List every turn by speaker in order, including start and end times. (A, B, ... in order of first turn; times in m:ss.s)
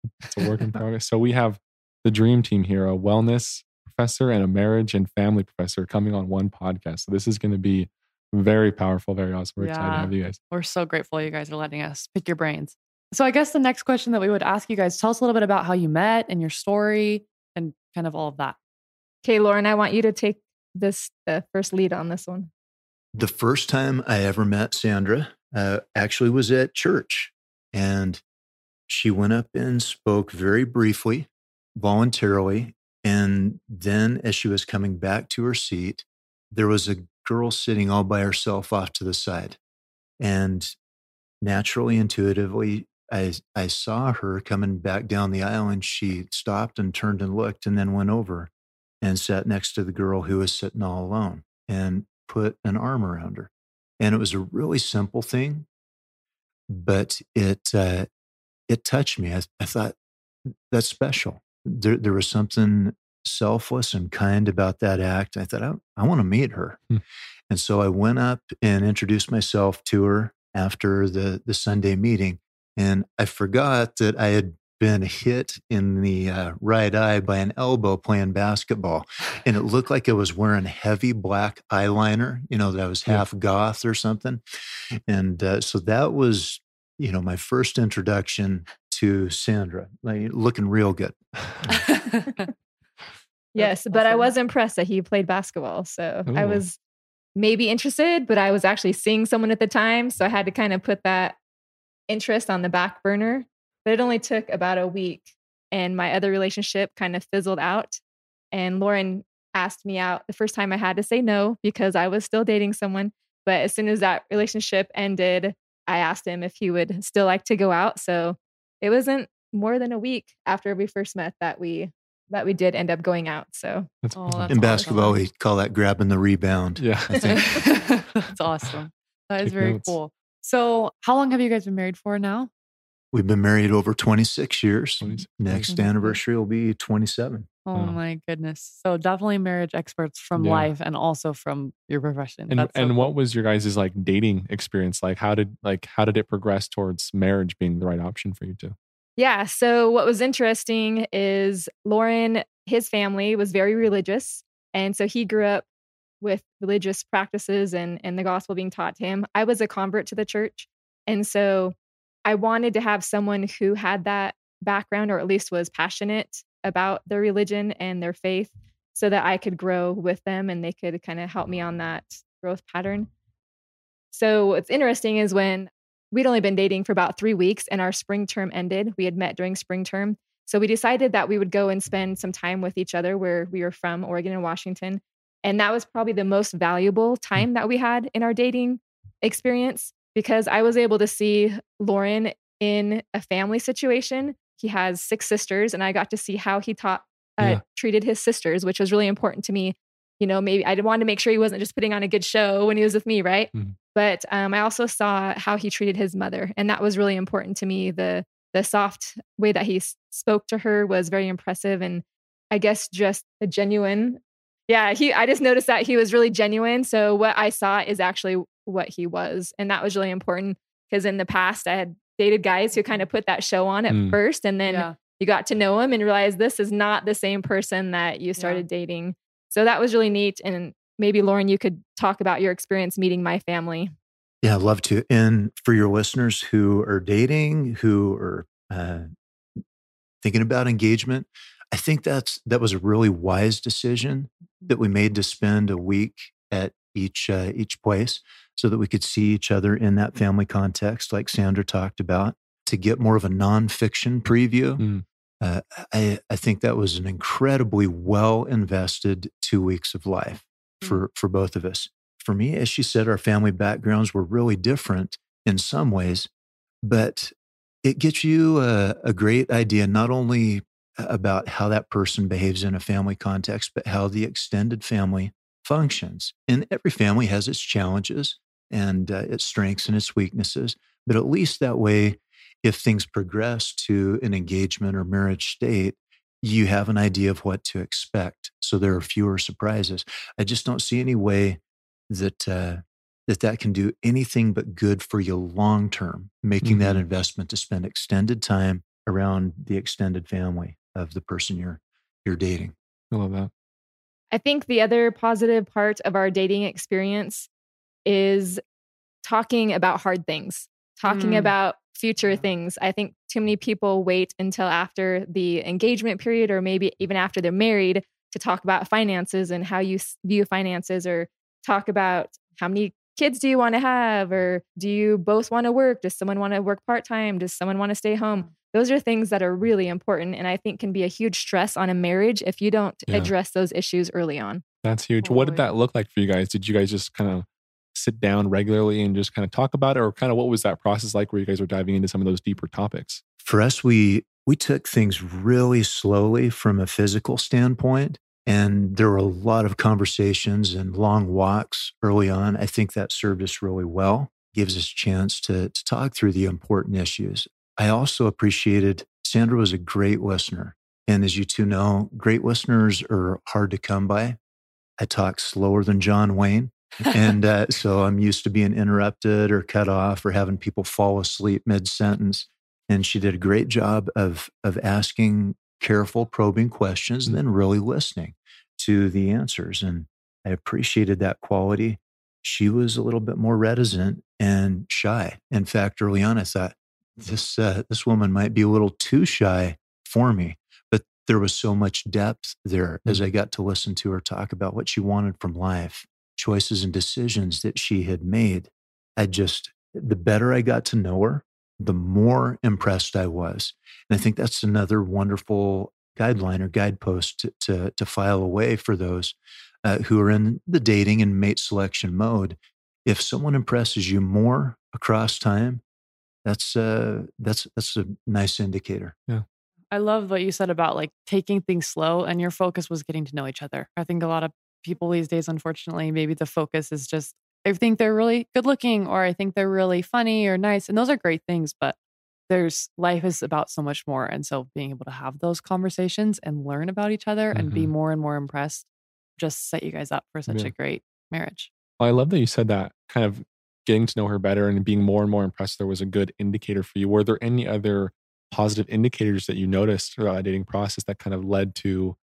0:00.2-0:10.4 A
0:09.6-0:18.6 B
0:19.2-0:22.5 C
0:23.2-0:28.2 D
0:28.9-0:39.6 D
0:40.2-0:40.7 D
0:41.4-0:48.5 D
0:49.0-0:55.7 D
0:56.7-0:58.1 D
0:58.7-1:00.0 D
1:00.7-1:06.8 D
1:07.5-1:24.4 D
1:25.1-1:31.8 D
1:31.7-1:32.4 B
1:33.6-1:36.8 C
1:33.6-1:34.3 B
1:36.3-1:36.6 A
1:37.4-1:41.4 C
1:42.1-1:48.0 C
1:48.5-2:03.9 C
2:04.0-2:04.9 A
2:04.2-2:05.2 B
2:04.5-2:07.7 D
2:06.8-2:07.7 A
2:07.2-2:12.5 B
2:09.4-2:10.0 A
2:13.1-2:17.5 D
2:15.0-2:15.7 A
2:15.7-2:16.2 B
2:17.7-2:23.1 B
2:17.7-2:18.0 A
2:20.4-2:20.7 A
2:22.5-2:28.8 A
2:29.2-2:35.7 C
2:36.2-2:53.1 C
2:54.1-3:53.9 C
3:43.9-3:44.2 A
3:44.7-3:45.0 B
3:48.4-3:48.6 B
3:54.4-3:59.1 D
4:00.2-4:14.8 D
4:14.8-4:15.0 A
4:15.4-4:26.3 D
4:26.8-4:27.3 D
4:27.8-5:02.8 D
4:56.6-4:57.0 A
5:03.1-5:03.5 A
5:04.3-5:07.5 C
5:08.1-5:08.6 C
5:09.2-5:34.6 C
5:11.1-5:11.5 B
5:34.8-5:43.2 A
5:35.3-5:35.6 B
5:43.4-6:04.4 D
6:05.0-6:55.8 D
6:56.4-6:59.2 D
6:59.9-7:12.0 B
7:12.5-7:21.7 B
7:17.5-7:17.9 A
7:22.0-7:32.2 A